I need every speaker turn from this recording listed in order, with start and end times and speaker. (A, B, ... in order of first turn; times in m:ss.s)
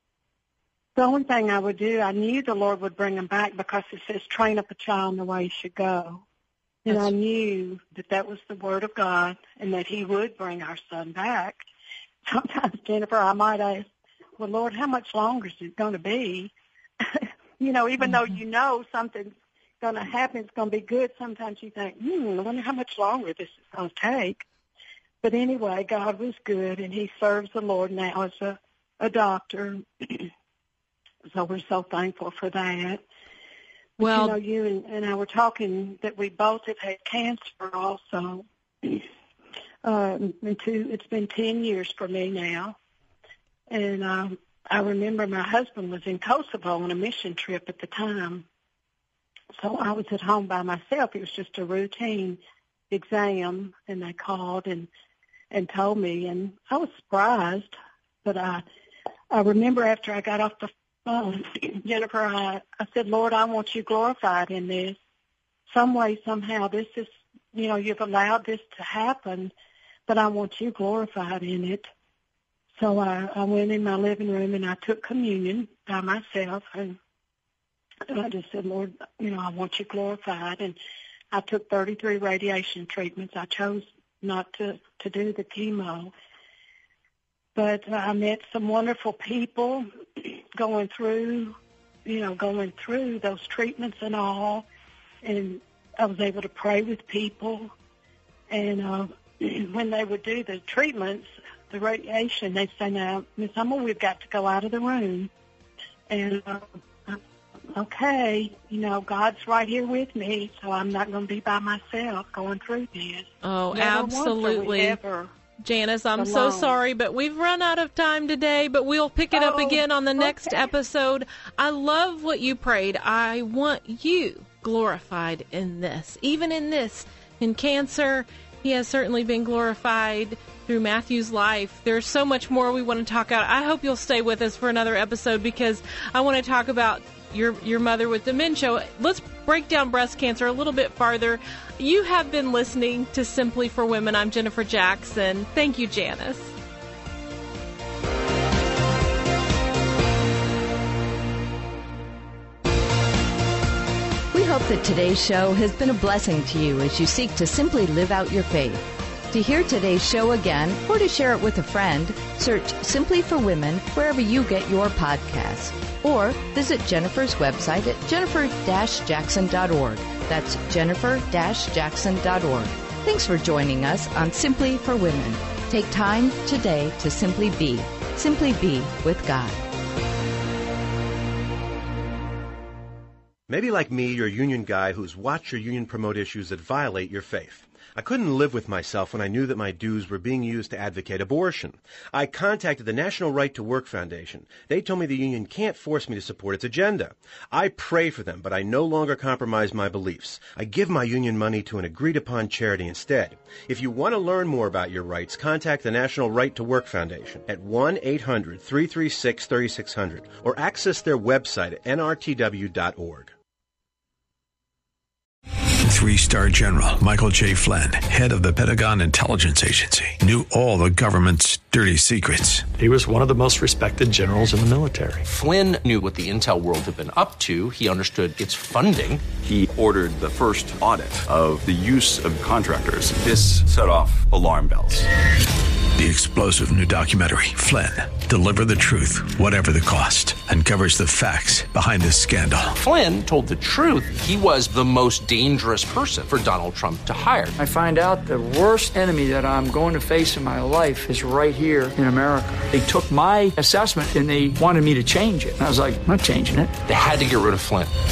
0:01.0-0:06.2 A
0:06.8-0:11.6 A
0:06.9-0:07.1 B
0:12.3-0:13.9 A
0:14.4-0:24.4 A
0:25.2-0:30.3 A
0:31.3-0:33.0 A
0:34.0-0:34.4 B
0:34.0-0:39.0 A
0:39.8-0:42.8 A
0:43.7-0:48.4 A
0:49.6-0:52.4 A
0:52.9-0:54.9 A
0:55.5-0:58.6 A
0:59.3-1:05.0 A
1:05.7-1:09.5 A
1:10.1-1:11.9 A
1:12.7-1:17.0 A
1:18.1-1:20.8 A
1:21.3-1:26.1 A
1:27.5-1:34.6 A
1:35.2-1:37.7 A
1:38.5-1:45.3 A
1:46.1-1:47.2 A
1:47.7-1:55.3 A
1:53.4-1:55.0 B
1:55.6-2:26.5 B
1:56.2-1:56.8 A
1:59.3-2:00.6 A
2:34.3-2:59.6 C
3:03.5-3:33.3 D
3:35.8-3:42.7 E
3:42.8-3:45.2 F
3:45.2-3:49.3 G
3:49.4-3:55.0 H
3:56.0-4:02.8 E
4:02.8-4:07.5 G
4:07.6-4:16.8 I
4:16.8-4:17.9 G